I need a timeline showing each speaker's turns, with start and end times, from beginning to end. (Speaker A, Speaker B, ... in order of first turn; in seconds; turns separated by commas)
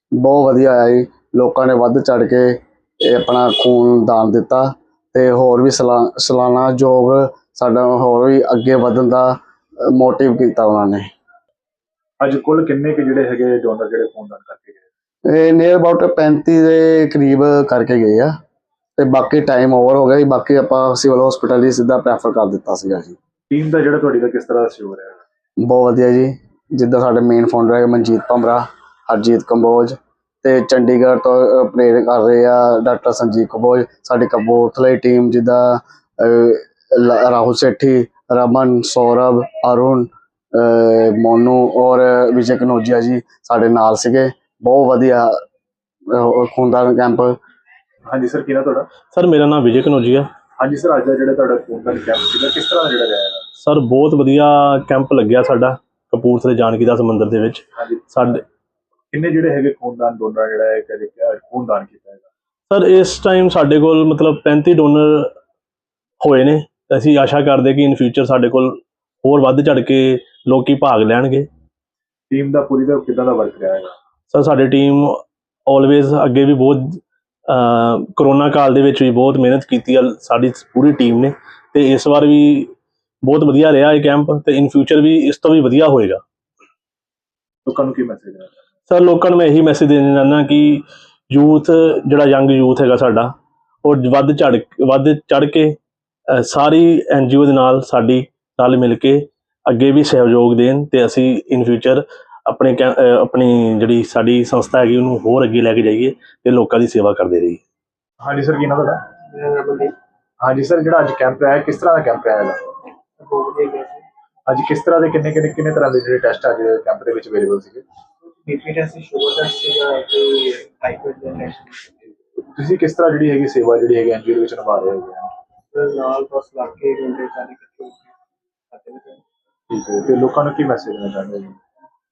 Speaker A: 0.1-11.1, Speaker B: 12.2-14.8, Speaker A: 15.3-18.3, Speaker A: 19.0-23.1, Speaker B: 23.5-25.2, Speaker A: 25.6-45.4, Speaker A: 46.1-47.4, Speaker B: 48.1-48.9, Speaker C: 49.1-50.3, Speaker B: 50.6-53.4, Speaker C: 53.6-58.4, Speaker B: 59.1-62.3, Speaker C: 62.7-65.3, Speaker C: 66.2-71.5, Speaker B: 72.3-73.9, Speaker C: 74.3-82.7, Speaker C: 83.2-86.2, Speaker B: 87.7-88.5, Speaker C: 88.9-93.3, Speaker C: 93.8-95.8, Speaker C: 96.3-107.6, Speaker B: 108.2-109.0, Speaker D: 109.3-109.9, Speaker B: 110.4-112.6, Speaker D: 113.2-114.0, Speaker B: 114.5-117.8, Speaker D: 118.4-122.1, Speaker B: 122.5-125.3, Speaker D: 125.7-128.1, Speaker D: 128.7-129.2, Speaker B: 129.7-131.6